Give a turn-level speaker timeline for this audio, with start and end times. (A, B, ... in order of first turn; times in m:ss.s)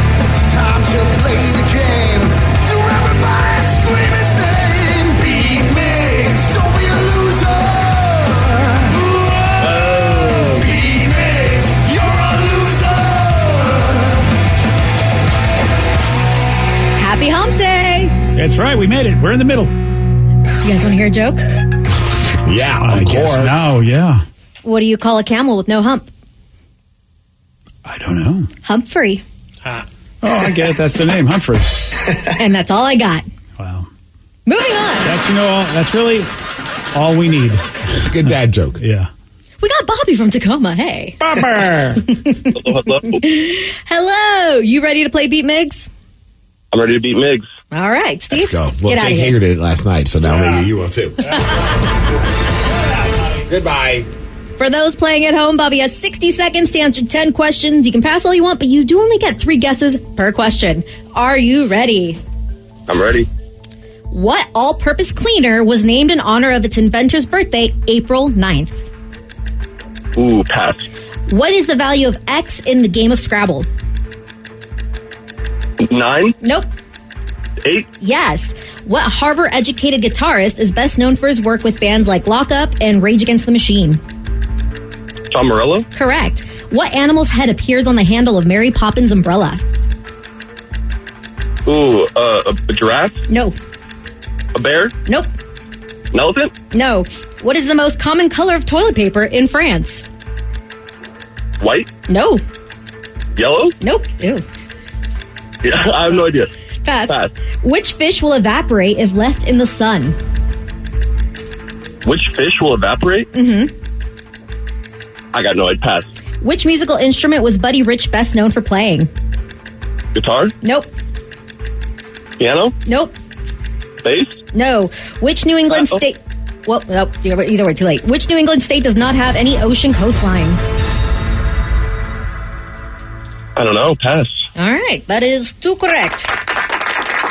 0:00.2-0:14.2 A
0:17.0-0:18.2 B
0:18.3-0:19.7 C
0:20.6-0:21.4 B
0:22.4-0:23.7 D
0:22.8-0:24.2 C
0:24.6-0:26.1 B
0:27.8-0:28.5 C
0:28.6-0:29.2 B
0:30.2-0:31.8 C
0:32.3-0:33.2 B
0:33.6-0:33.9 C
0:34.4-0:35.2 B
0:35.0-0:36.3 C
0:36.9-0:37.6 C
0:37.9-0:38.8 D
0:38.2-0:39.1 C
0:39.6-0:41.3 B
0:41.3-0:42.0 C
0:42.0-0:45.9 B
0:42.5-0:43.2 E
0:46.7-0:47.4 E
0:47.7-0:49.4 B
0:48.3-0:51.4 D
0:50.3-0:50.6 C
0:53.3-0:54.1 D
0:54.6-1:02.2 B
1:02.9-1:03.2 E
1:04.1-1:08.8 B
1:10.2-1:10.8 E
1:11.3-1:13.7 B
1:15.8-1:16.3 E
1:16.4-1:16.7 B
1:18.0-1:24.0 B
1:25.3-1:25.8 E
1:25.9-1:29.6 B
1:31.7-1:33.1 E
1:33.3-1:33.5 B
1:34.6-1:34.9 E
1:35.0-1:35.3 B
1:36.2-1:36.5 E
1:36.7-1:40.0 B
1:42.1-1:42.4 B
1:43.4-1:43.7 E
1:43.8-1:44.4 B
1:45.6-1:46.5 E
1:46.8-1:50.2 B
1:52.0-1:53.2 E
1:53.3-1:53.7 B
1:55.3-1:56.1 E
1:56.4-1:59.1 B
2:00.2-2:00.5 E
2:00.6-2:00.9 B
2:02.4-2:02.7 E
2:02.8-2:03.1 B
2:04.0-2:04.3 E
2:04.5-2:10.6 B
2:13.6-2:14.3 E
2:14.6-2:16.3 B